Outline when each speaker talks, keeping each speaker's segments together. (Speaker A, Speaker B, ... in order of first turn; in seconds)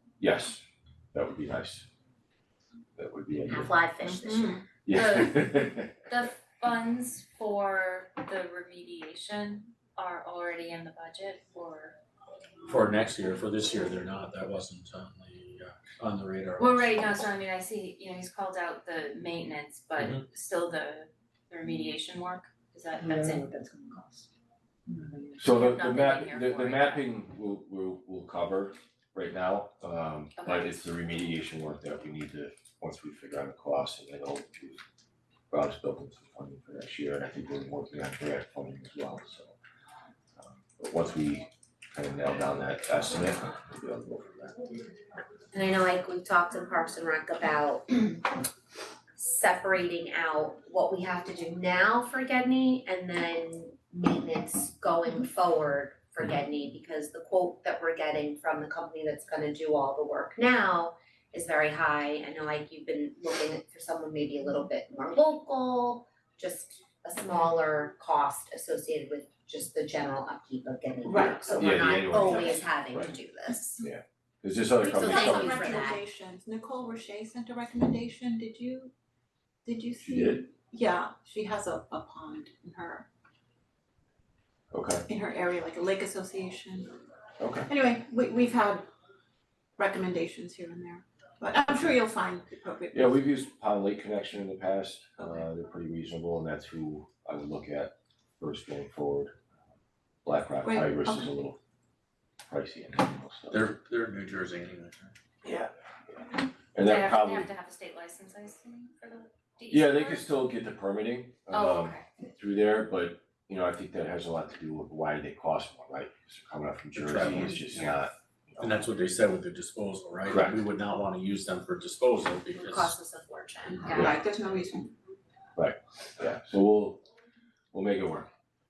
Speaker A: 0.2-0.6, 1.1-1.9, 3.0-3.8, 4.8-6.1, 25.4-34.8, 35.5-39.5, 40.4-44.7, 71.2-73.1, 73.8-75.8, 80.0-80.4, 84.7-85.0, 87.4-87.7, 92.9-99.3, 100.2-101.6, 102.5-103.6, 106.7-107.5, 109.7-118.7, 120.3-120.6, 125.5-127.0, 127.7-128.3
Speaker B: 3.5-4.6, 23.1-24.0, 45.5-48.3, 49.1-73.8, 74.8-76.0, 122.5-124.1
Speaker C: 4.0-4.6, 71.0-71.6, 74.9-78.9, 79.6-83.0, 85.1-87.0, 87.7-88.9, 89.8-93.2, 95.2-95.4, 100.6-101.3, 123.9-124.9
Speaker D: 4.9-12.0, 16.6-23.5, 25.2-27.0, 30.4-30.7, 106.8-110.3, 111.5-112.0
Speaker E: 12.6-17.2, 103.5-105.1, 116.9-118.0, 118.6-123.0